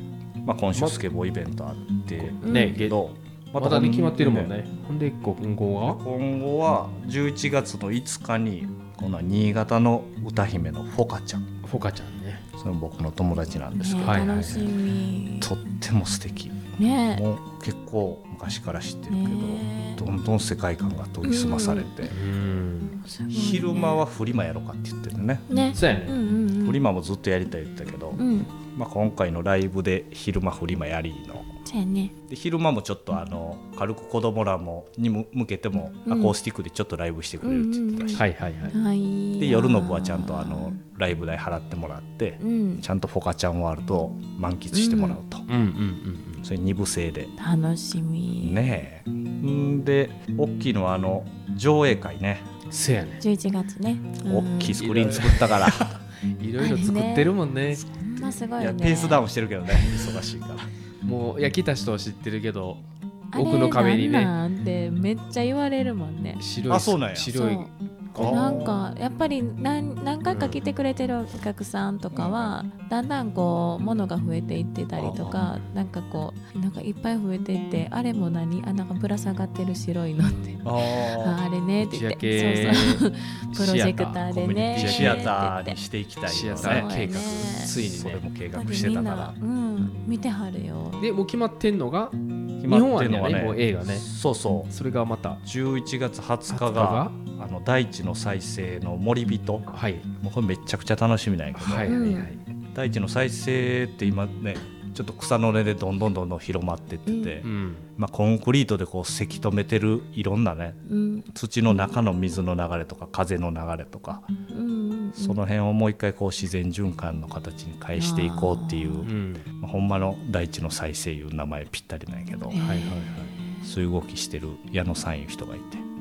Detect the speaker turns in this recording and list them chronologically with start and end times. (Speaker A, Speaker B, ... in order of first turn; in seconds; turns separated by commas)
Speaker A: 0.4-4.5, Speaker B: 2.2-3.0, Speaker C: 2.4-2.8, Speaker B: 3.6-6.0, Speaker A: 5.9-11.5, Speaker B: 11.6-12.5, Speaker A: 12.6-14.5, Speaker C: 13.8-15.5, Speaker B: 14.0-14.7, Speaker A: 15.4-22.1, Speaker C: 16.8-17.2, Speaker C: 19.1-20.1, Speaker C: 21.2-22.1, Speaker B: 22.1-23.0, Speaker C: 23.0-24.0, Speaker A: 23.3-25.5, Speaker C: 25.5-26.8, Speaker B: 25.7-26.1, Speaker A: 26.6-28.2, Speaker C: 28.1-28.5, Speaker A: 28.7-31.5, Speaker C: 31.6-32.1, Speaker A: 32.3-38.2, Speaker C: 36.1-36.3, Speaker C: 37.4-40.8, Speaker B: 38.1-38.8, Speaker A: 39.4-45.5, Speaker C: 42.4-42.8, Speaker C: 44.7-45.2, Speaker B: 45.5-46.4, Speaker A: 46.4-47.3, Speaker C: 47.4-48.6, Speaker A: 48.4-52.5, Speaker B: 52.7-53.2, Speaker C: 53.2-54.8, Speaker A: 54.2-55.9, Speaker B: 54.8-57.8, Speaker C: 56.6-59.2, Speaker A: 58.6-60.7, Speaker B: 61.0-62.8, Speaker C: 63.3-66.4, Speaker B: 63.3-64.3, Speaker B: 66.4-68.7, Speaker A: 66.7-67.3, Speaker C: 67.3-67.7, Speaker A: 68.1-68.8, Speaker C: 68.2-85.8, Speaker B: 70.3-70.6, Speaker A: 72.1-72.5, Speaker A: 75.0-75.5, Speaker A: 80.6-81.4, Speaker B: 81.8-85.3, Speaker A: 84.3-89.4, Speaker B: 86.3-88.2, Speaker C: 86.6-87.8, Speaker C: 88.5-91.0, Speaker B: 91.0-94.1, Speaker A: 92.6-94.7, Speaker B: 94.7-95.4, Speaker A: 95.4-102.1, Speaker B: 96.5-97.1, Speaker B: 99.7-100.1, Speaker B: 101.6-102.4, Speaker C: 101.9-102.3, Speaker A: 102.7-114.3, Speaker C: 107.1-107.4, Speaker B: 107.4-107.8, Speaker C: 110.9-111.9, Speaker C: 114.5-115.4, Speaker A: 115.2-122.6, Speaker C: 118.0-119.1, Speaker B: 119.0-119.5, Speaker C: 122.5-123.6, Speaker B: 122.6-123.3, Speaker A: 123.6-125.8